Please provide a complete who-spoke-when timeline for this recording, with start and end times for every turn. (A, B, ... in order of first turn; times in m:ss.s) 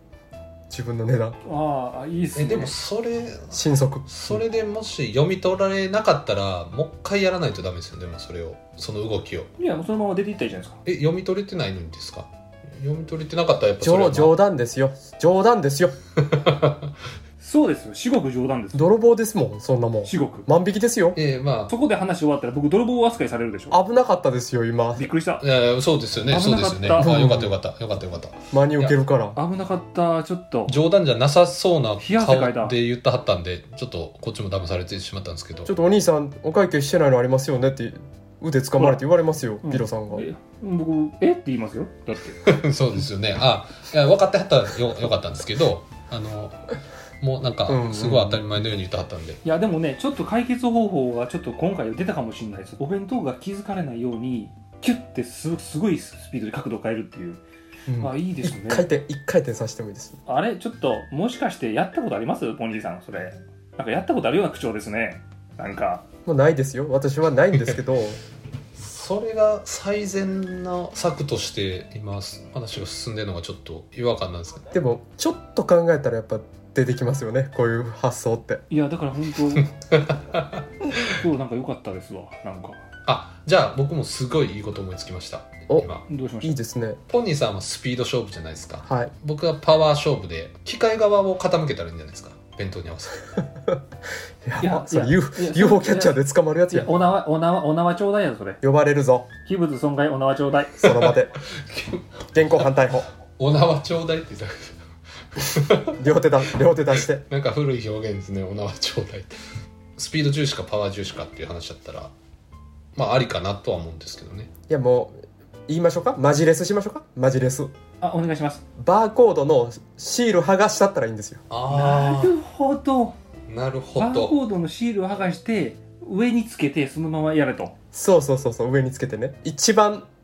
0:00.7-0:01.4 A
0:01.4-0:02.7 B
0:02.3-0:09.5 C
0:03.5-0:04.4 A
0:09.6-0:10.8 B
0:10.8-0:14.4 C
0:13.8-0:16.0 A
0:16.3-0:16.9 C
0:17.4-0:18.8 B
0:18.7-0:21.2 A
0:20.0-0:20.5 B
0:21.1-0:21.7 C
0:21.7-0:23.8 B
0:23.7-0:25.1 A
0:25.0-0:25.4 B
0:25.4-0:29.0 C
0:26.2-0:27.1 B
0:26.9-0:27.5 A
0:28.5-0:29.4 A
0:29.3-0:30.8 B
0:30.7-0:35.7 C
0:32.0-0:32.8 B
0:35.6-0:40.3 A
0:38.8-0:39.0 B
0:39.6-0:42.4 B
0:42.4-0:49.4 C
0:47.7-0:48.4 A
0:49.4-0:57.4 B
0:57.9-1:00.2 A
0:58.0-0:58.8 B
1:00.2-1:06.0 B
1:06.2-1:08.2 A
1:08.7-1:14.7 C
1:14.7-1:18.6 A
1:18.7-1:19.7 B
1:19.9-1:21.0 C
1:21.0-1:22.8 B
1:23.0-1:26.0 C
1:26.1-1:26.5 B
1:26.4-1:27.0 A
1:27.1-1:33.3 C
1:28.9-1:29.1 A
1:34.4-1:36.9 A
1:34.6-1:36.2 B
1:36.7-1:38.6 B
1:38.6-1:39.3 A
1:39.4-1:40.9 B
1:40.8-1:41.3 A
1:40.8-1:42.1 C
1:42.3-1:43.1 A
1:43.4-1:44.8 C
1:45.3-1:46.0 C
1:46.0-1:47.2 A
1:46.9-1:49.4 C
1:50.0-1:52.1 C
1:52.9-1:54.5 C
1:54.7-1:57.7 A
1:58.0-1:58.6 B
1:58.8-2:01.4 A
2:01.5-2:02.4 C
2:01.7-2:03.2 B
2:03.5-2:04.4 C
2:04.0-2:07.7 B
2:07.9-2:10.1 A